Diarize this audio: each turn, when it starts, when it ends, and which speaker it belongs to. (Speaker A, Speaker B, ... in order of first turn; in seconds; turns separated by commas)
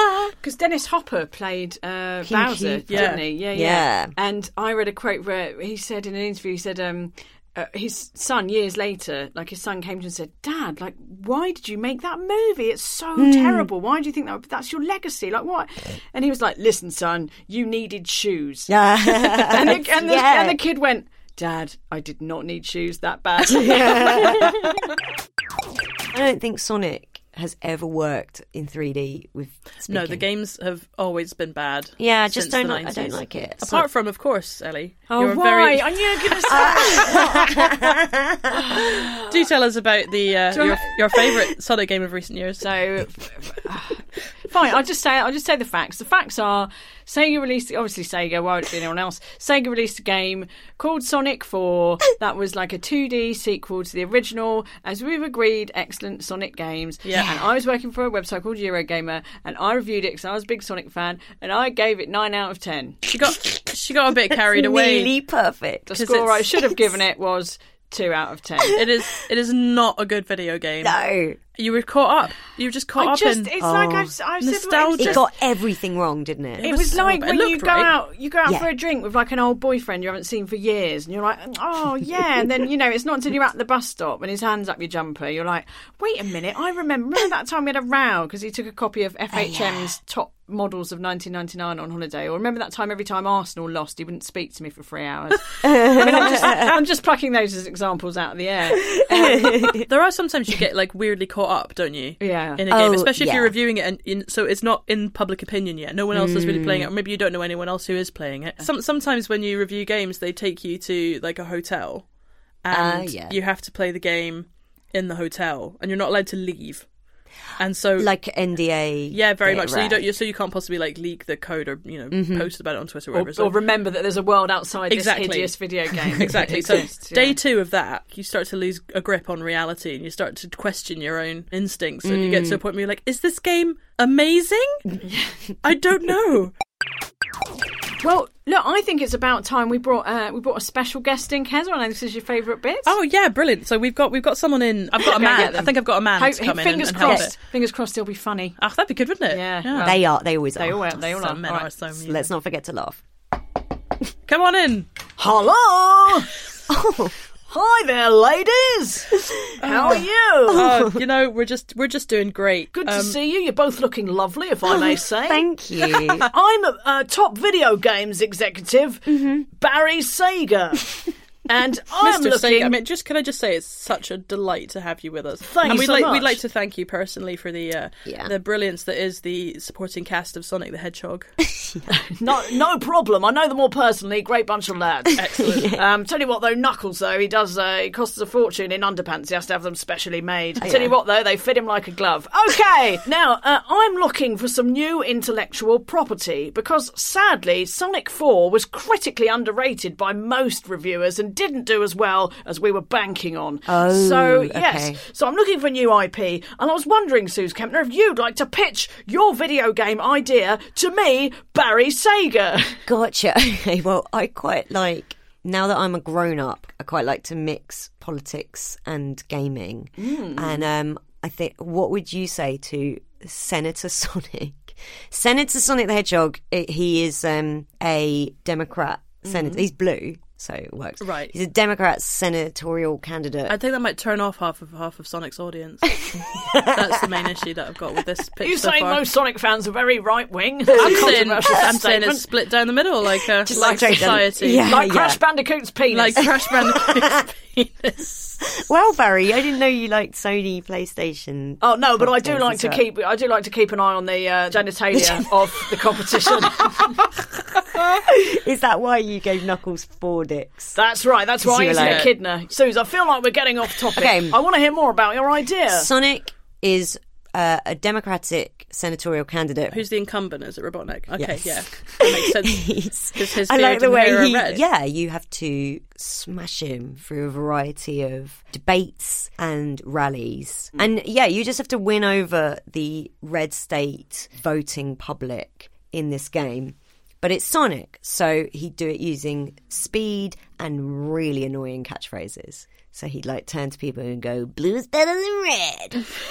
Speaker A: 0.3-24.8, Speaker B: 2.2-4.1, Speaker C: 2.9-3.2, Speaker B: 13.2-13.7, Speaker B: 18.7-20.6, Speaker B: 23.4-24.8, Speaker B: 26.1-30.3, Speaker C: 29.9-35.9, Speaker B: 32.0-33.9, Speaker A: 35.1-38.0, Speaker B: 36.5-38.6, Speaker A: 38.5-39.3, Speaker C: 39.3-42.7, Speaker A: 40.5-40.9, Speaker A: 42.6-63.0, Speaker C: 57.0-57.3, Speaker C: 63.1-65.1, Speaker B: 64.3-66.0, Speaker A: 65.9-68.8, Speaker C: 65.9-66.4, Speaker C: 68.7-71.0, Speaker B: 70.8-71.4, Speaker C: 71.6-73.5, Speaker A: 73.0-75.2, Speaker B: 73.6-74.1, Speaker C: 74.4-75.2, Speaker B: 75.0-76.7, Speaker C: 76.6-77.9, Speaker A: 76.6-99.8, Speaker B: 89.3-90.0, Speaker B: 95.6-96.8, Speaker B: 99.0-99.8, Speaker C: 99.9-112.1, Speaker A: 102.2-102.6, Speaker B: 102.7-103.5, Speaker B: 106.1-106.9, Speaker C: 112.6-116.9, Speaker B: 112.7-113.4, Speaker C: 117.6-118.1, Speaker B: 118.0-120.1, Speaker C: 119.1-123.5, Speaker B: 122.1-122.5, Speaker A: 123.1-127.4, Speaker C: 124.9-125.6, Speaker C: 126.1-134.8, Speaker B: 132.0-132.6, Speaker C: 135.6-136.5, Speaker A: 138.0-142.9, Speaker C: 142.8-147.3, Speaker A: 145.0-148.6, Speaker B: 147.0-147.3, Speaker C: 148.6-149.9, Speaker A: 149.3-151.7, Speaker B: 149.8-151.0, Speaker C: 151.2-152.3, Speaker B: 152.0-153.0, Speaker C: 154.3-154.9, Speaker A: 155.2-156.3, Speaker B: 156.7-157.1, Speaker A: 157.5-160.7, Speaker C: 159.6-163.2, Speaker B: 160.5-161.0, Speaker A: 162.7-165.5, Speaker B: 164.6-166.3, Speaker A: 166.3-172.8, Speaker B: 169.1-169.4, Speaker C: 172.0-181.3, Speaker A: 175.4-176.4, Speaker B: 178.1-178.3, Speaker B: 181.4-181.9, Speaker A: 181.9-212.9, Speaker C: 185.2-185.7, Speaker B: 185.5-185.8, Speaker B: 190.6-190.9, Speaker B: 203.7-205.0, Speaker B: 212.9-233.6, Speaker A: 220.0-220.7, Speaker A: 229.3-229.6, Speaker C: 231.0-231.3, Speaker C: 233.5-239.0, Speaker B: 236.4-237.1, Speaker A: 238.4-242.2, Speaker C: 240.7-244.7, Speaker B: 243.4-245.2, Speaker A: 243.5-246.4, Speaker C: 245.9-248.4, Speaker B: 248.5-252.9, Speaker A: 251.6-257.0, Speaker B: 254.9-255.3, Speaker B: 257.8-260.8, Speaker A: 260.8-265.9, Speaker B: 261.4-262.1, Speaker C: 261.7-262.1, Speaker B: 263.9-264.4, Speaker B: 265.7-269.8, Speaker C: 269.7-274.6, Speaker B: 271.2-296.1